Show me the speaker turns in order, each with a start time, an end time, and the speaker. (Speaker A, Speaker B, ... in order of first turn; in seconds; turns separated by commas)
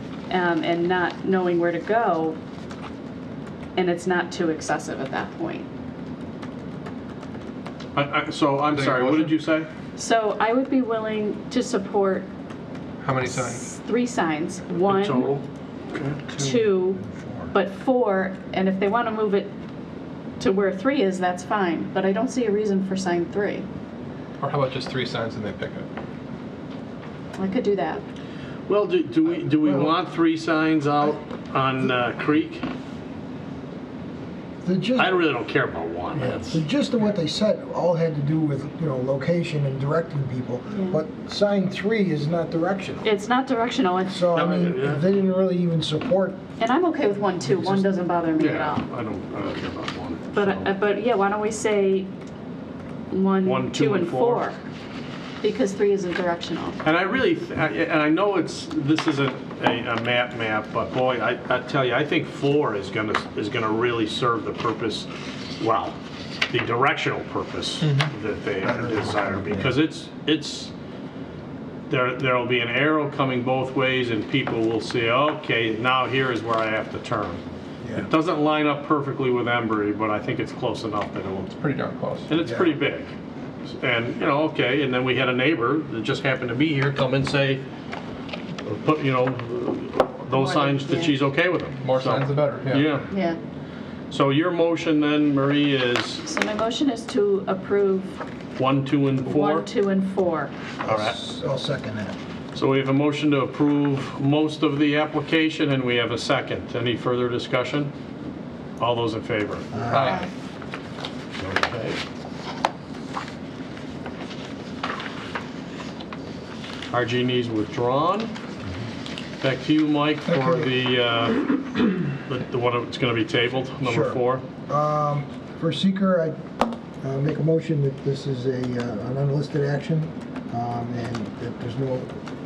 Speaker A: 0.3-2.4, Speaker A: 3.8-5.7, Speaker B: 7.9-9.7, Speaker C: 8.7-9.3, Speaker A: 9.9-12.3, Speaker C: 13.0-13.6, Speaker A: 13.2-15.3, Speaker B: 14.9-16.6, Speaker A: 16.4-19.5, Speaker D: 16.9-17.5, Speaker A: 20.4-23.7, Speaker C: 24.4-25.9, Speaker A: 27.4-28.0, Speaker B: 28.7-32.6, Speaker D: 34.6-35.3, Speaker B: 35.0-36.6, Speaker D: 36.1-43.1, Speaker A: 40.7-41.0, Speaker A: 43.0-44.5, Speaker D: 44.1-46.4, Speaker B: 44.4-45.0, Speaker A: 46.6-48.8, Speaker D: 47.4-47.9, Speaker B: 48.4-50.7, Speaker A: 50.3-52.1, Speaker A: 53.1-54.6, Speaker B: 53.4-54.5, Speaker A: 55.4-56.8, Speaker B: 56.8-66.0, Speaker B: 66.5-70.7, Speaker C: 67.8-68.1, Speaker D: 68.6-69.8, Speaker B: 71.9-77.4, Speaker B: 77.9-81.6, Speaker C: 81.6-82.3, Speaker B: 82.3-83.1, Speaker D: 82.4-82.7, Speaker B: 83.7-87.6, Speaker B: 88.6-93.1, Speaker A: 90.3-91.2, Speaker C: 91.8-92.9, Speaker A: 93.1-93.4, Speaker B: 94.1-96.2, Speaker A: 96.2-98.2, Speaker B: 98.6-99.7, Speaker A: 99.2-100.5, Speaker D: 100.8-102.2, Speaker B: 100.8-101.1, Speaker B: 102.5-107.9, Speaker B: 108.8-109.7, Speaker D: 109.7-110.2, Speaker C: 109.9-110.2, Speaker B: 111.4-112.0, Speaker B: 116.9-118.3, Speaker B: 119.4-124.4, Speaker D: 120.3-120.7, Speaker D: 123.8-126.4, Speaker D: 127.0-132.2